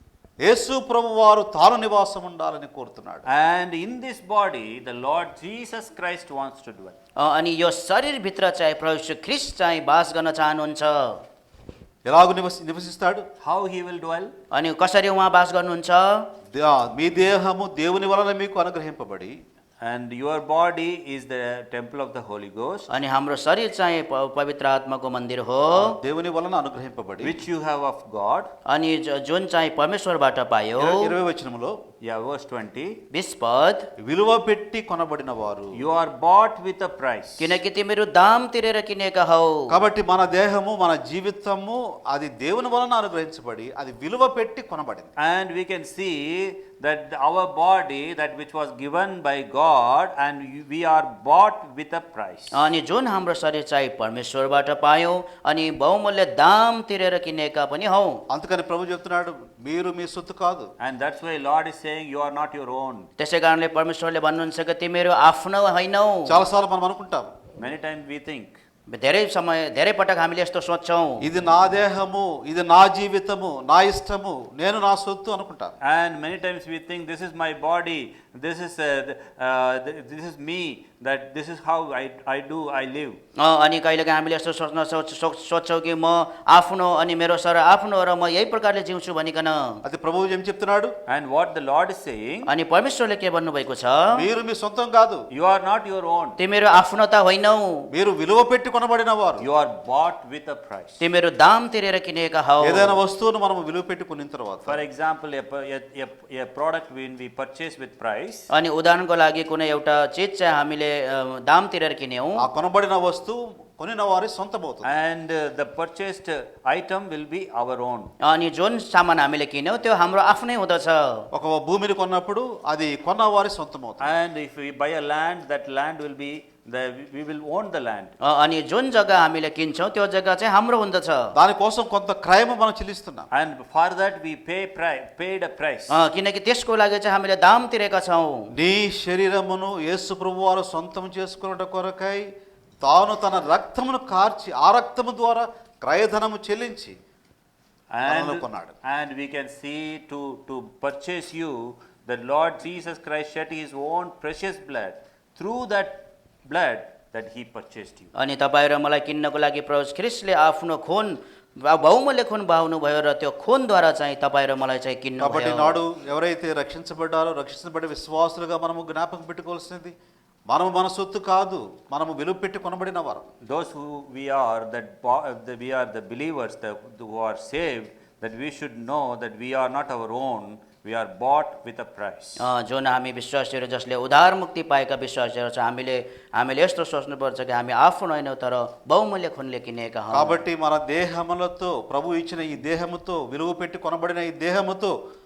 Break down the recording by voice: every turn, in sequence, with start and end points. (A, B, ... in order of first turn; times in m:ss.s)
0:00.4-0:03.2 A
0:03.2-0:07.0 B
0:07.2-0:11.2 C
0:12.0-0:13.2 A
0:13.4-0:14.3 B
0:14.5-0:16.3 C
0:16.5-0:19.4 A
0:19.8-0:22.9 B
0:22.9-0:26.0 C
0:25.7-0:27.4 A
0:27.2-0:28.5 B
0:28.7-0:31.2 C
0:30.8-0:31.8 A
0:32.0-0:33.0 B
0:33.1-0:33.9 C
0:34.0-0:35.8 A
0:35.7-0:37.6 B
0:37.4-0:39.8 C
0:39.7-0:45.1 A
0:45.2-0:52.6 B
0:52.5-0:58.2 C
0:58.3-1:00.7 A
1:00.8-1:03.1 B
1:03.2-1:06.4 C
1:06.2-1:07.3 A
1:07.6-1:08.6 B
1:08.9-1:11.2 C
1:11.2-1:15.8 A
1:15.8-1:23.2 B
1:23.4-1:29.8 C
1:29.8-1:30.9 A
1:31.1-1:32.5 B
1:32.4-1:34.3 C
1:34.1-1:35.2 A
1:35.3-1:36.4 B
1:36.4-1:37.9 C
1:37.9-1:39.4 A
1:39.4-1:41.0 B
1:41.0-1:43.0 C
1:42.6-1:44.8 A
1:44.6-1:48.5 B
1:48.5-1:52.4 C
1:52.4-1:54.9 A
1:54.8-1:58.1 B
1:58.2-2:01.3 C
2:01.3-2:04.1 A
2:04.0-2:08.1 B
2:08.2-2:11.3 C
2:11.3-2:13.3 A
2:13.3-2:15.9 B
2:15.9-2:18.5 C
2:18.5-2:22.3 A
2:22.8-2:27.0 A
2:27.9-2:38.1 B
2:28.0-2:28.7 A
2:38.1-2:45.8 C
2:45.2-2:49.9 A
2:50.5-2:53.3 A
2:53.4-3:02.4 B
3:02.4-3:10.4 C
3:10.1-3:14.9 A